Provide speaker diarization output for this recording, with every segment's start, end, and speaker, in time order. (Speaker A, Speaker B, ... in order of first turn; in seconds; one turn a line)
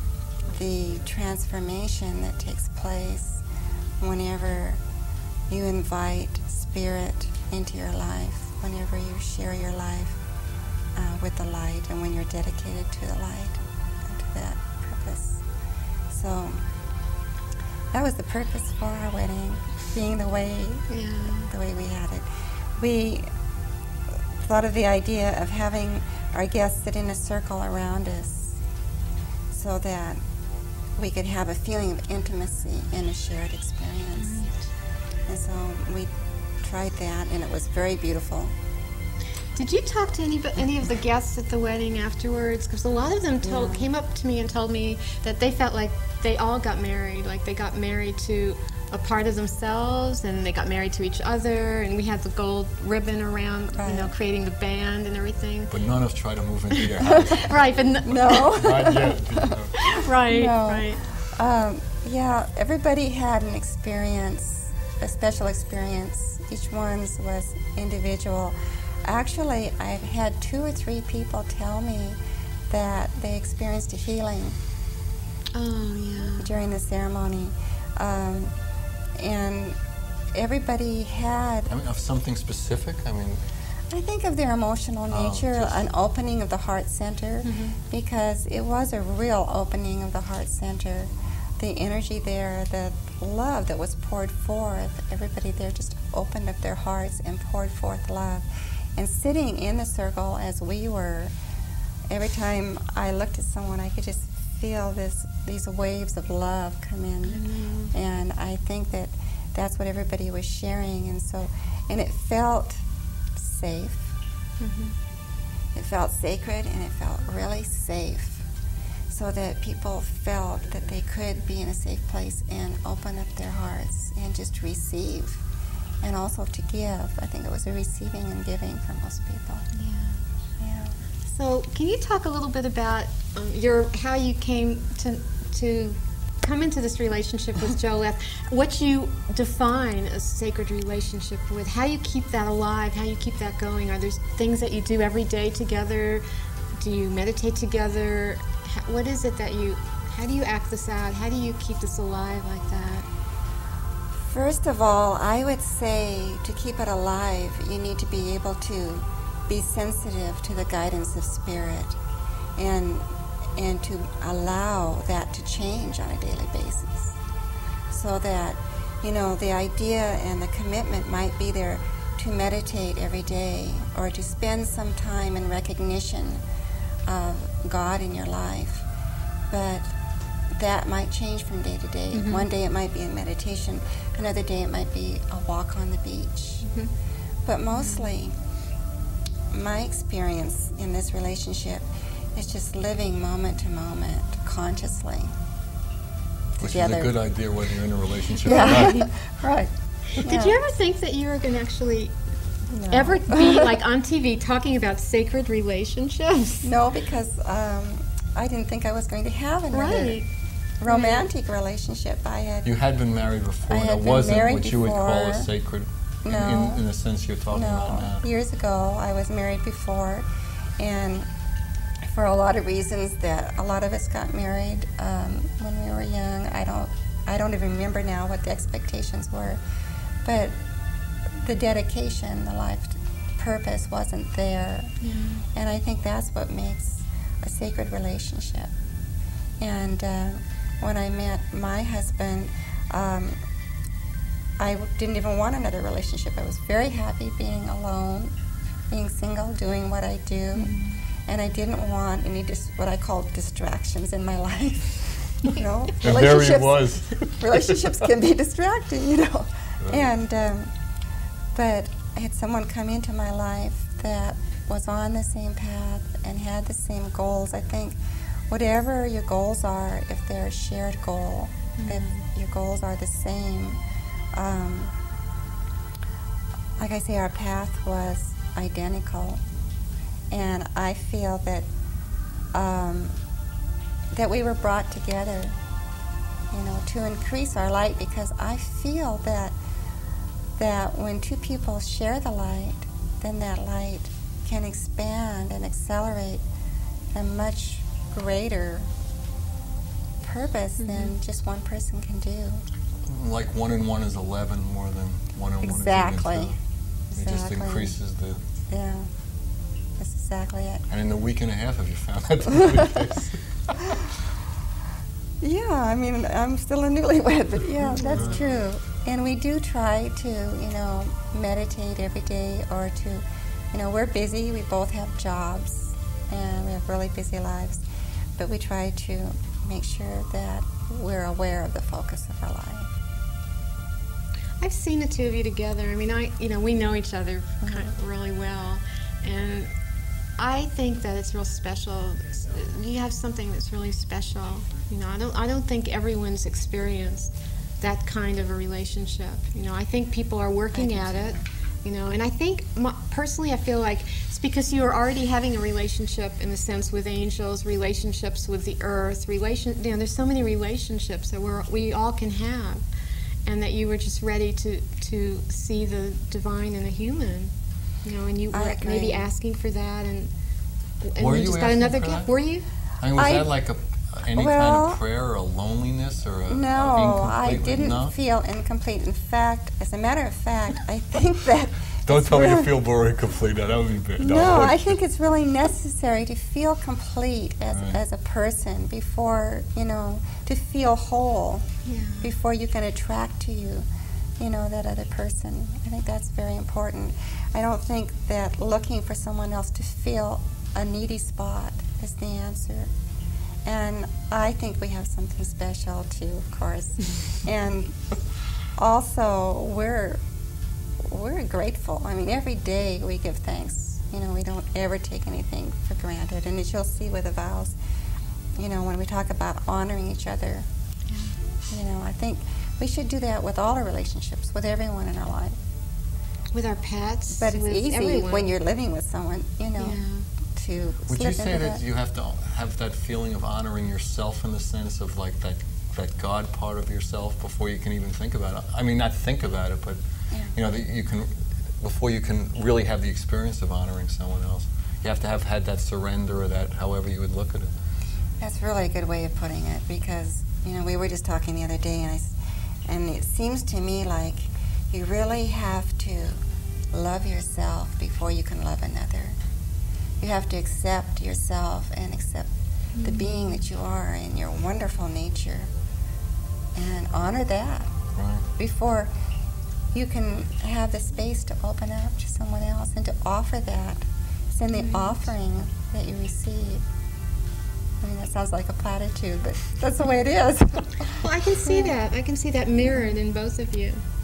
Speaker A: 0.5-3.4
Speaker A: 4.0-4.8
Speaker A: 5.5-10.2
Speaker A: 11.0-15.4
Speaker A: 16.1-16.6
Speaker A: 17.9-23.3
Speaker B: 20.9-21.5
Speaker A: 24.4-28.6
Speaker A: 29.5-30.2
Speaker A: 31.0-34.4
Speaker B: 34.2-34.6
Speaker A: 35.3-36.1
Speaker A: 36.6-38.5
Speaker B: 39.6-55.7
Speaker A: 43.4-43.9
Speaker A: 53.7-54.1
Speaker C: 55.7-57.6
Speaker B: 56.8-58.6
Speaker A: 57.0-57.3
Speaker A: 58.0-72.2
Speaker C: 58.5-59.7
Speaker B: 59.8-61.0
Speaker A: 72.7-74.6
Speaker B: 75.5-76.5
Speaker A: 76.4-78.5
Speaker A: 79.2-79.8
Speaker A: 80.3-81.7
Speaker C: 81.7-83.4
Speaker A: 83.9-101.3
Speaker C: 85.1-85.9
Speaker B: 87.4-87.8
Speaker A: 102.1-112.8
Speaker B: 107.3-107.9
Speaker A: 113.4-114.1
Speaker B: 114.6-115.0
Speaker A: 115.7-118.5
Speaker A: 119.1-125.4
Speaker A: 126.0-129.7
Speaker B: 129.7-130.2
Speaker A: 130.6-130.9
Speaker B: 131.3-146.2
Speaker B: 146.8-153.1
Speaker A: 154.2-162.0
Speaker A: 162.6-163.1
Speaker A: 163.6-167.2
Speaker A: 167.9-176.4
Speaker A: 177.1-178.9
Speaker A: 179.5-179.9
Speaker A: 180.5-186.7
Speaker B: 182.1-182.5
Speaker B: 186.6-186.9
Speaker A: 187.4-188.4
Speaker B: 187.8-188.0
Speaker A: 189.5-195.3
Speaker A: 196.6-197.1
Speaker C: 196.6-199.1
Speaker A: 198.4-200.6
Speaker B: 200.1-202.1
Speaker A: 202.7-203.7
Speaker B: 202.9-206.7
Speaker A: 206.6-210.2
Speaker B: 209.7-210.3
Speaker A: 210.8-212.7
Speaker B: 210.9-211.3
Speaker C: 212.7-218.2
Speaker A: 213.7-215.5
Speaker A: 216.3-216.8
Speaker A: 217.5-220.3
Speaker A: 220.8-221.3
Speaker A: 222.1-229.6
Speaker A: 230.2-230.6
Speaker A: 231.4-234.9
Speaker B: 235.0-235.4
Speaker A: 235.5-238.7
Speaker A: 239.6-243.4
Speaker A: 244.6-248.3
Speaker A: 248.9-260.7
Speaker B: 250.6-250.9
Speaker C: 256.0-257.8
Speaker A: 261.5-273.8
Speaker B: 271.8-272.2
Speaker A: 274.3-274.9
Speaker A: 276.8-279.4
Speaker A: 280.3-281.7
Speaker A: 282.5-283.2
Speaker A: 284.1-285.6
Speaker A: 286.5-289.6
Speaker A: 290.6-296.4
Speaker A: 297.1-298.9
Speaker A: 300.2-302.6
Speaker B: 300.8-301.1
Speaker C: 303.1-306.6
Speaker A: 305.6-306.5
Speaker A: 307.1-308.0
Speaker C: 307.2-308.4
Speaker A: 308.7-309.1
Speaker A: 310.0-310.9
Speaker C: 310.9-314.1
Speaker A: 315.4-327.8
Speaker B: 317.9-318.3
Speaker C: 318.1-318.4
Speaker A: 328.4-333.0
Speaker B: 334.6-339.7
Speaker B: 340.4-362.8
Speaker A: 350.7-351.4
Speaker B: 363.5-367.5
Speaker B: 368.0-370.3
Speaker A: 368.5-369.3
Speaker B: 371.0-372.7
Speaker C: 371.2-372.3
Speaker C: 373.0-378.1
Speaker A: 373.1-373.6
Speaker A: 374.3-375.0
Speaker A: 376.5-382.8
Speaker C: 382.1-385.0
Speaker A: 384.2-391.7
Speaker C: 387.7-388.0
Speaker B: 391.9-392.3
Speaker A: 392.2-393.9
Speaker A: 394.4-402.9
Speaker A: 403.6-408.0
Speaker A: 408.8-410.2
Speaker A: 411.0-417.8
Speaker A: 418.6-420.7
Speaker B: 421.1-421.4
Speaker A: 421.7-425.6
Speaker B: 426.5-428.5
Speaker A: 427.4-430.0
Speaker B: 429.8-430.3
Speaker A: 430.5-431.8
Speaker C: 431.1-440.0
Speaker A: 440.3-440.6
Speaker C: 440.6-447.7
Speaker A: 448.4-452.3
Speaker A: 452.9-459.4
Speaker A: 460.2-465.7
Speaker B: 462.9-463.5
Speaker A: 466.8-467.9
Speaker C: 468.2-468.4
Speaker A: 468.6-469.1
Speaker A: 469.9-476.8
Speaker B: 474.8-475.1
Speaker A: 478.0-481.9
Speaker B: 481.2-484.0